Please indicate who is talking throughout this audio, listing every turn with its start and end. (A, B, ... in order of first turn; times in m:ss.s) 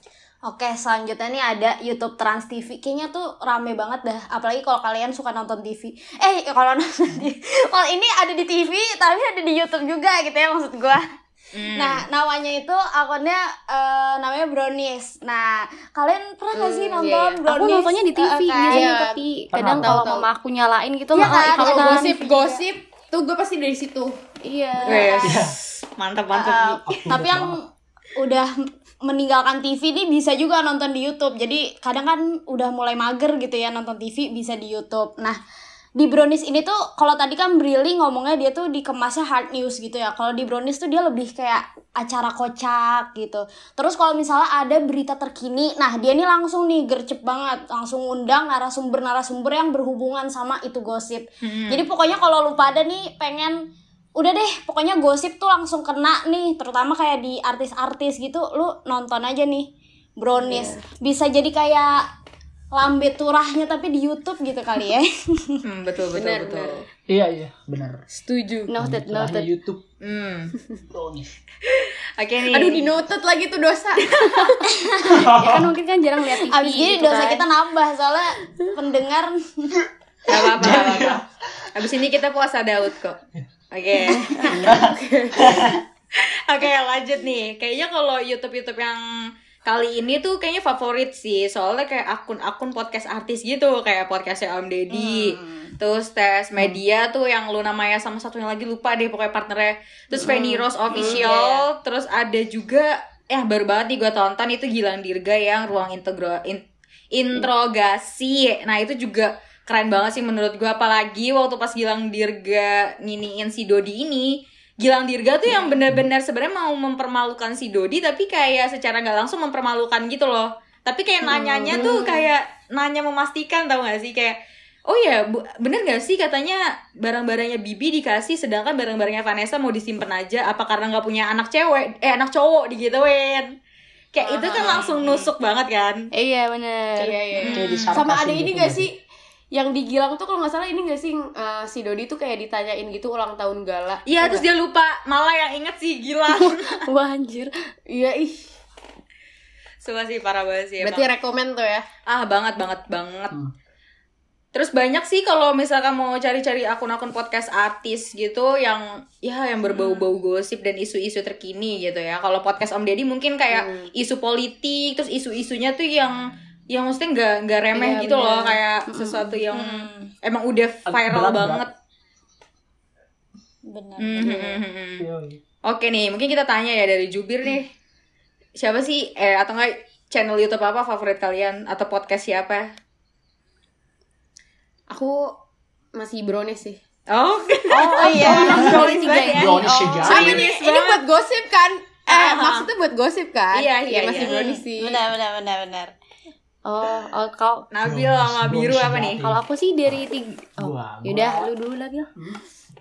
0:00.4-0:11.0 A
0:11.5-0:12.0 B
0:11.8-0:18.9 A
0:16.5-0:17.4 C
0:17.4-0:22.1 D
0:18.7-0:20.3 C
0:19.5-0:20.1 E
0:21.1-0:22.6 A
0:21.2-0:24.2 C
0:24.4-0:25.3 D
0:24.8-0:26.8 B
0:24.9-0:25.1 C
0:25.2-0:25.6 E
0:26.3-0:27.6 A
0:26.8-0:27.6 E
0:28.2-0:28.5 A
0:29.0-0:35.4 A
0:36.0-1:02.0 A
0:51.4-0:51.9 B
1:00.4-1:00.8 C
1:02.7-1:05.6 A
1:05.6-1:06.8 B
1:06.2-1:06.8 C
1:07.1-1:08.0 E
1:08.1-1:08.7 C
1:08.6-1:09.5 D
1:08.7-1:09.8 E
1:10.0-1:10.6 B
1:10.9-1:11.3 E
1:11.7-1:12.9 B
1:12.5-1:14.6 C
1:14.1-1:14.6 B
1:14.7-1:15.3 A
1:15.0-1:15.7 E
1:15.2-1:17.4 D
1:16.3-1:19.8 A
1:19.8-1:21.2 E
1:20.3-1:21.2 B
1:21.7-1:24.6 B
1:24.4-1:25.7 C
1:24.4-1:25.8 E
1:26.1-1:29.0 B
1:29.6-2:13.6 B
1:34.9-1:35.7 A
1:40.9-1:41.3 C
1:40.9-1:41.7 A
2:01.3-2:02.3 C
2:14.1-2:16.1 B
2:14.2-2:15.3 C
2:16.1-2:17.2 D
2:17.0-2:19.0 C
2:17.4-2:18.0 B
2:17.5-2:18.9 E
2:19.5-2:24.5 C
2:24.0-2:26.8 B
2:26.3-2:27.5 D
2:27.9-2:28.4 C
2:29.8-2:31.1 B
2:30.8-2:31.8 C
2:32.1-2:33.3 B
2:34.5-2:51.7 B
2:43.5-2:43.9 C
2:47.7-2:48.6 C
2:48.9-2:49.3 D
2:49.5-2:50.1 A
2:50.9-2:51.6 E
2:53.7-2:54.6 A
2:54.0-2:55.0 B
2:55.0-2:55.4 E
2:55.6-2:57.7 B
2:58.6-3:02.7 B
3:04.9-3:05.4 C
3:05.9-3:06.8 C
3:07.1-3:11.0 B
3:07.7-3:10.4 A
3:08.0-3:09.2 C
3:08.3-3:10.4 E
3:10.0-3:15.0 C
3:12.1-3:12.7 B
3:13.5-3:14.4 B
3:14.1-3:15.9 A
3:16.6-3:17.7 D
3:17.7-3:19.2 B
3:17.8-3:19.4 E
3:19.2-3:22.1 D
3:20.6-3:21.5 E